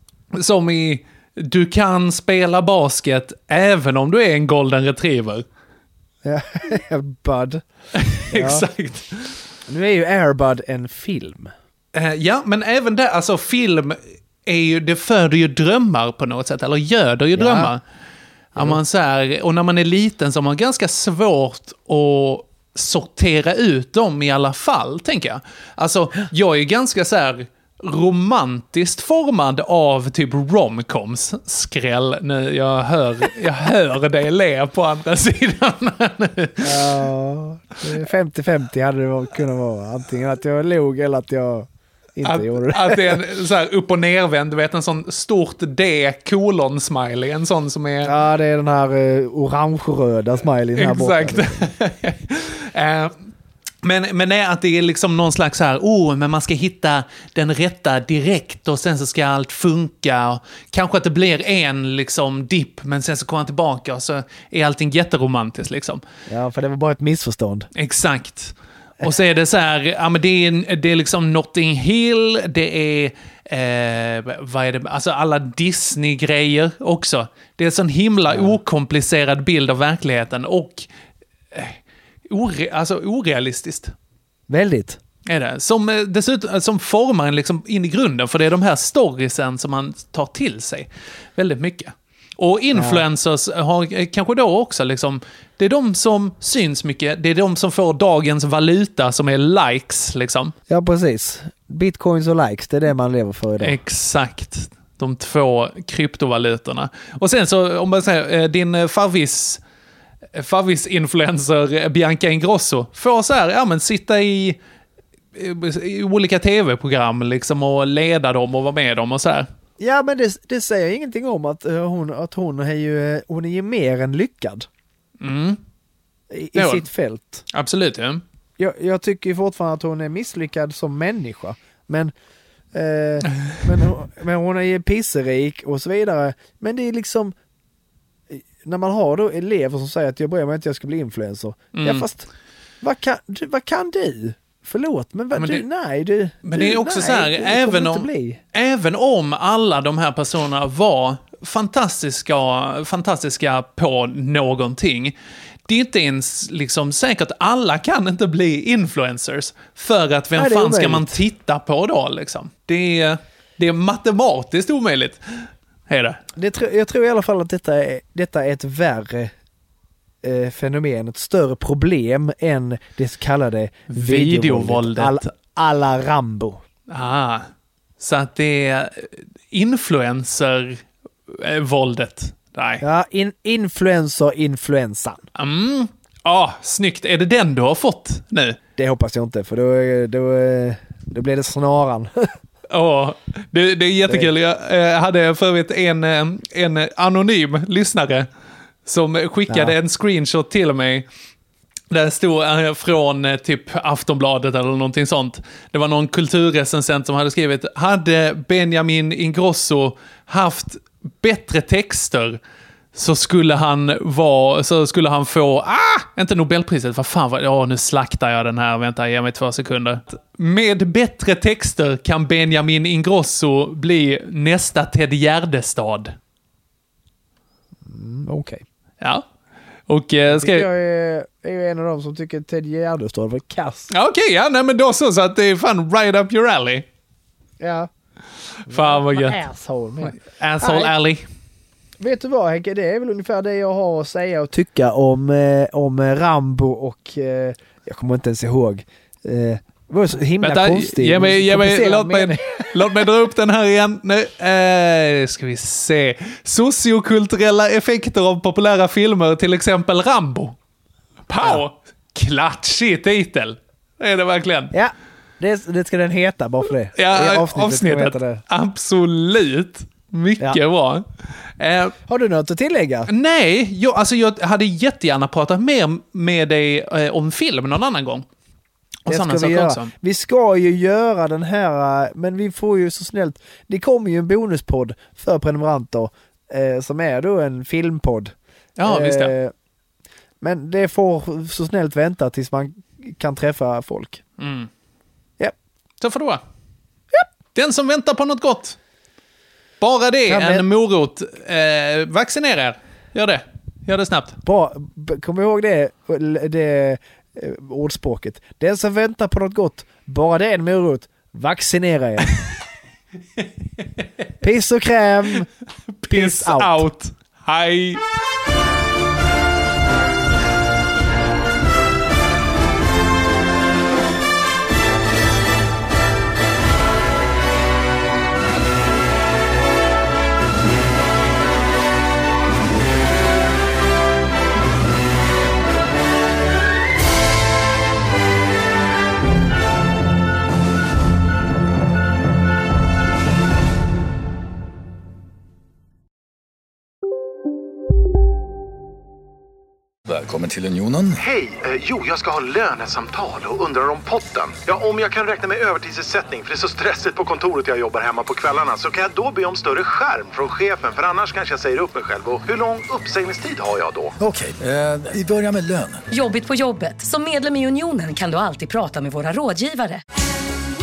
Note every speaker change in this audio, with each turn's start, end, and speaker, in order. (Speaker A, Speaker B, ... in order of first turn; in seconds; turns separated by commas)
Speaker A: 0.3-5.4, Speaker B: 6.2-7.6, Speaker A: 7.9-9.5, Speaker B: 8.3-8.7, Speaker B: 9.7-11.5, Speaker A: 11.9-17.8, Speaker B: 17.3-17.7, Speaker A: 18.6-36.9, Speaker B: 36.6-43.2, Speaker A: 42.2-48.1, Speaker B: 48.0-51.6, Speaker A: 50.8-53.1, Speaker A: 53.8-66.0, Speaker B: 66.3-67.7, Speaker A: 67.7-80.9, Speaker B: 78.3-78.5, Speaker A: 81.5-83.9, Speaker B: 84.5-85.0, Speaker A: 85.3-100.5, Speaker B: 92.7-93.0, Speaker B: 100.7-103.8, Speaker A: 103.6-109.6, Speaker A: 110.3-114.6, Speaker A: 115.3-119.5, Speaker B: 119.8-124.7, Speaker A: 125.2-125.6, Speaker B: 126.3-127.4, Speaker A: 126.5-126.8, Speaker A: 127.5-128.2, Speaker B: 128.6-132.1, Speaker B: 132.7-137.3, Speaker B: 138.3-142.3, Speaker A: 141.7-142.1, Speaker B: 142.8-148.4, Speaker A: 145.3-145.6, Speaker A: 146.4-155.1, Speaker A: 155.7-166.2, Speaker B: 160.3-161.2, Speaker B: 166.3-169.3, Speaker B: 170.2-176.6, Speaker A: 173.9-175.2, Speaker A: 176.9-177.5, Speaker A: 178.0-182.8, Speaker B: 182.8-185.2, Speaker A: 185.3-188.6, Speaker B: 188.8-192.3, Speaker A: 192.7-198.3, Speaker A: 198.8-201.1, Speaker B: 199.5-199.7, Speaker A: 201.9-212.4, Speaker A: 212.9-226.2, Speaker B: 227.8-228.6, Speaker A: 229.9-230.7, Speaker B: 230.3-233.9, Speaker A: 233.9-236.8, Speaker B: 237.6-237.9, Speaker A: 238.7-239.4, Speaker B: 238.7-240.9, Speaker A: 240.0-241.2, Speaker B: 242.0-253.1, Speaker A: 250.4-260.6, Speaker A: 261.3-264.7, Speaker B: 264.7-268.4, Speaker A: 266.9-271.9, Speaker B: 272.1-273.1, Speaker A: 273.1-278.2, Speaker A: 279.1-279.9, Speaker B: 279.1-288.3, Speaker A: 288.8-289.3, Speaker B: 288.9-289.5, Speaker B: 290.4-294.2, Speaker A: 294.4-294.7, Speaker A: 296.0-296.4, Speaker A: 297.5-298.8, Speaker A: 299.8-304.4, Speaker B: 300.3-300.6, Speaker B: 304.4-312.3, Speaker B: 314.4-315.5, Speaker A: 316.0-318.0, Speaker B: 316.1-316.9, Speaker C: 350.1-351.2, Speaker D: 351.2-364.2, Speaker C: 364.2-366.0, Speaker E: 366.1-370.0